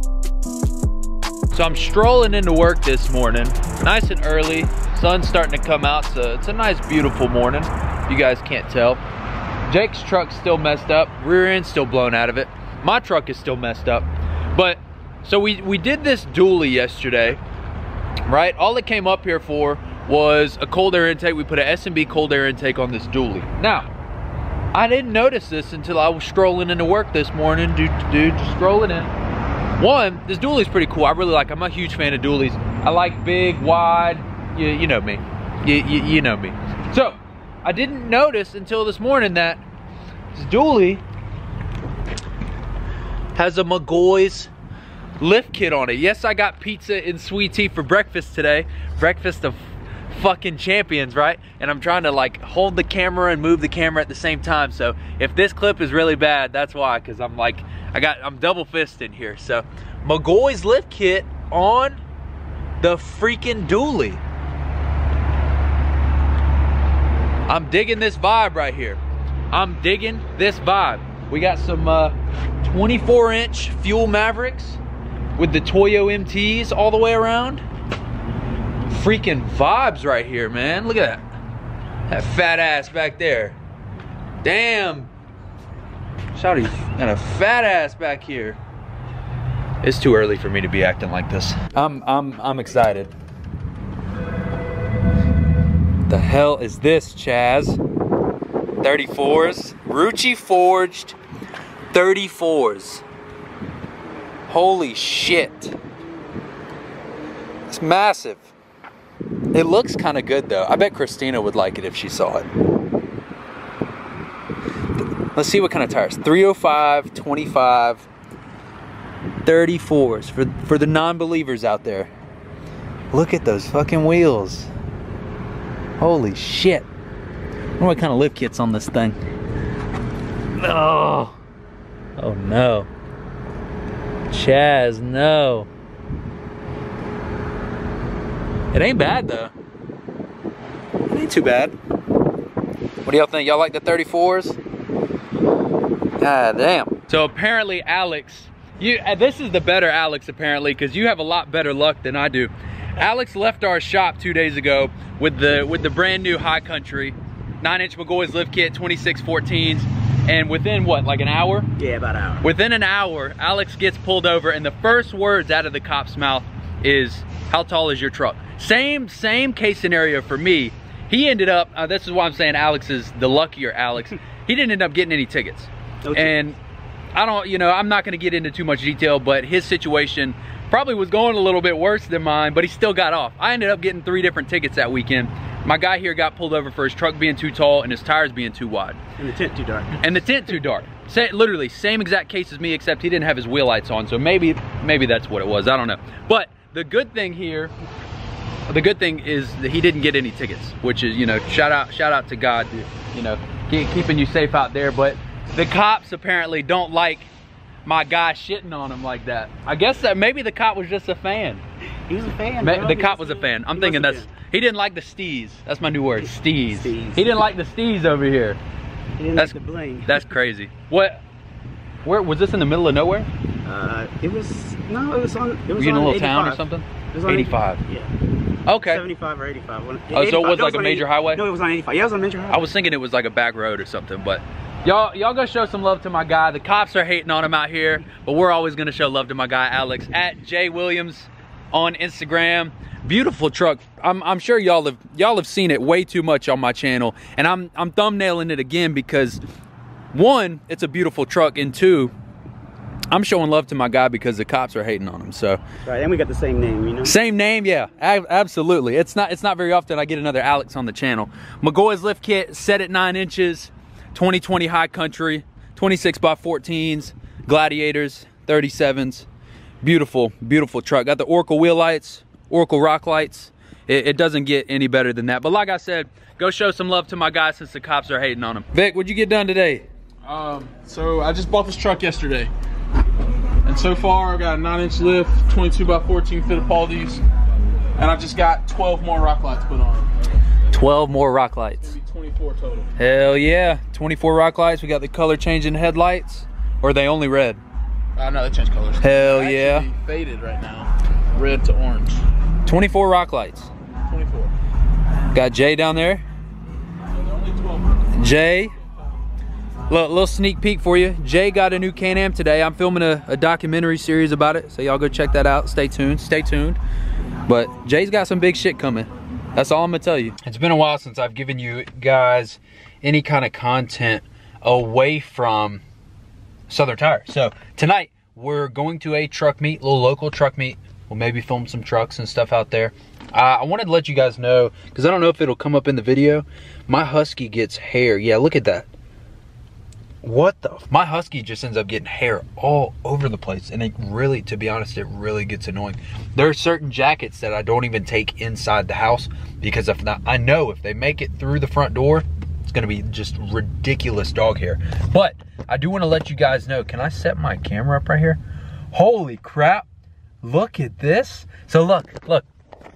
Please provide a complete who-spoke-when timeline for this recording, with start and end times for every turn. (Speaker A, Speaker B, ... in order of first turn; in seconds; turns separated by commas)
Speaker A: 1.5-9.0, Speaker A: 9.7-17.4, Speaker A: 18.3-23.9, Speaker A: 24.7-29.1, Speaker A: 29.8-39.6, Speaker A: 40.3-41.0, Speaker A: 43.4-44.5, Speaker A: 45.2-62.0, Speaker A: 62.8-64.2, Speaker A: 67.5-69.0, Speaker A: 69.5-74.8, Speaker A: 75.4-77.6, Speaker A: 78.9-81.2, Speaker A: 82.1-83.6, Speaker A: 84.4-85.1, Speaker A: 86.3-88.6, Speaker A: 89.8-93.1, Speaker A: 96.1-97.8, Speaker A: 98.8-101.2, Speaker A: 101.9-103.0, Speaker A: 104.5-105.8, Speaker A: 107.7-108.5, Speaker A: 109.5-112.5, Speaker A: 115.3-118.1, Speaker A: 119.4-122.1, Speaker A: 123.1-124.7, Speaker A: 126.0-126.9, Speaker A: 127.8-129.2, Speaker A: 130.6-131.4, Speaker A: 132.2-132.9, Speaker A: 134.3-135.7, Speaker A: 138.7-139.5, Speaker A: 141.1-141.7, Speaker A: 143.0-144.6, Speaker A: 146.2-161.7, Speaker B: 161.8-162.5, Speaker A: 162.4-176.6, Speaker B: 176.1-176.3, Speaker A: 177.1-189.0, Speaker B: 189.2-190.1, Speaker A: 190.0-197.7, Speaker A: 198.7-207.3, Speaker A: 207.8-211.6, Speaker B: 212.1-214.3, Speaker A: 212.6-218.6, Speaker B: 216.2-217.3, Speaker B: 219.2-220.2, Speaker A: 219.4-221.2, Speaker A: 222.1-223.3, Speaker B: 223.7-228.1, Speaker A: 225.8-227.8, Speaker A: 228.7-229.0, Speaker B: 228.8-232.7, Speaker A: 230.1-231.4, Speaker A: 232.5-249.4, Speaker A: 250.1-252.1, Speaker A: 253.1-255.6, Speaker B: 255.9-257.2, Speaker A: 257.0-269.3, Speaker A: 269.8-279.9, Speaker C: 280.2-282.5, Speaker C: 283.6-287.2, Speaker C: 288.0-290.1, Speaker A: 290.7-291.9, Speaker C: 291.8-292.9, Speaker A: 293.0-297.6, Speaker C: 298.2-302.2, Speaker A: 299.0-299.9, Speaker A: 302.6-303.7, Speaker C: 304.1-304.5, Speaker A: 305.3-306.2, Speaker C: 307.1-308.1, Speaker A: 308.1-308.7, Speaker A: 309.9-316.8, Speaker A: 317.5-325.8, Speaker A: 326.7-338.9, Speaker A: 340.2-358.4, Speaker A: 358.9-359.9, Speaker A: 360.4-362.5